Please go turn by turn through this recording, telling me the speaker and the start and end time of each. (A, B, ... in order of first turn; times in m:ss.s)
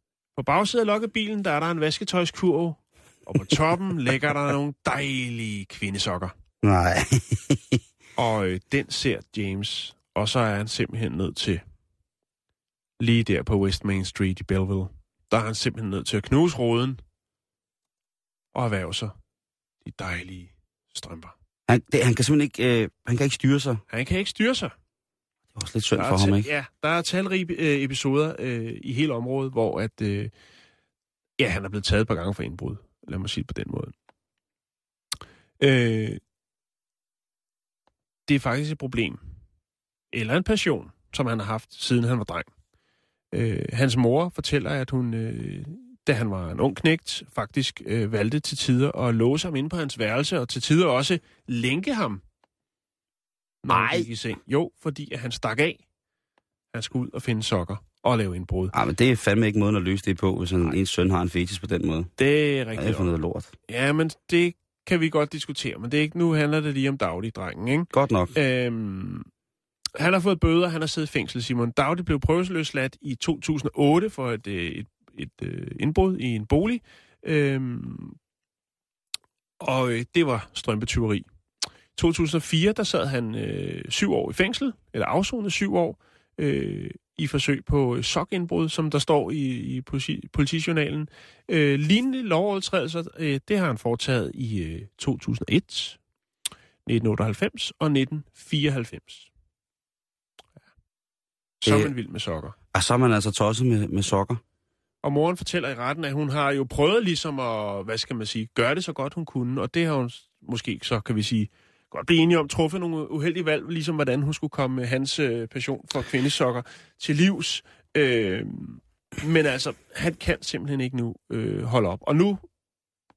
0:00.4-0:06.3 A
0:06.6-0:07.8 B
0:08.2-0:11.6 A
0:13.0-0:17.0 A
0:18.5-0:19.1 A
0:19.8-0:21.3 A
0:21.7-0:23.8 B
0:23.9-0:24.7 A
0:25.6-0:26.5 B
0:26.0-0:30.3 A
0:31.4-0:33.9 A
0:35.6-0:36.2 A
0:38.3-0:39.2 A
0:40.1-0:42.5 A
0:43.3-0:52.2 A
0:53.6-0:55.8 A
0:53.7-0:54.1 B
0:56.7-0:58.7 A
0:58.7-1:02.1 B
1:02.2-1:03.1 A
1:02.8-1:03.5 B
1:03.7-1:09.3 A
1:07.9-1:08.3 B
1:10.0-1:18.2 A
1:19.6-1:21.3 A
1:22.0-1:36.0 A
1:36.9-1:39.3 A
1:41.6-1:42.6 A
1:41.6-1:41.9 B
1:42.7-1:44.4 B
1:45.0-2:02.4 A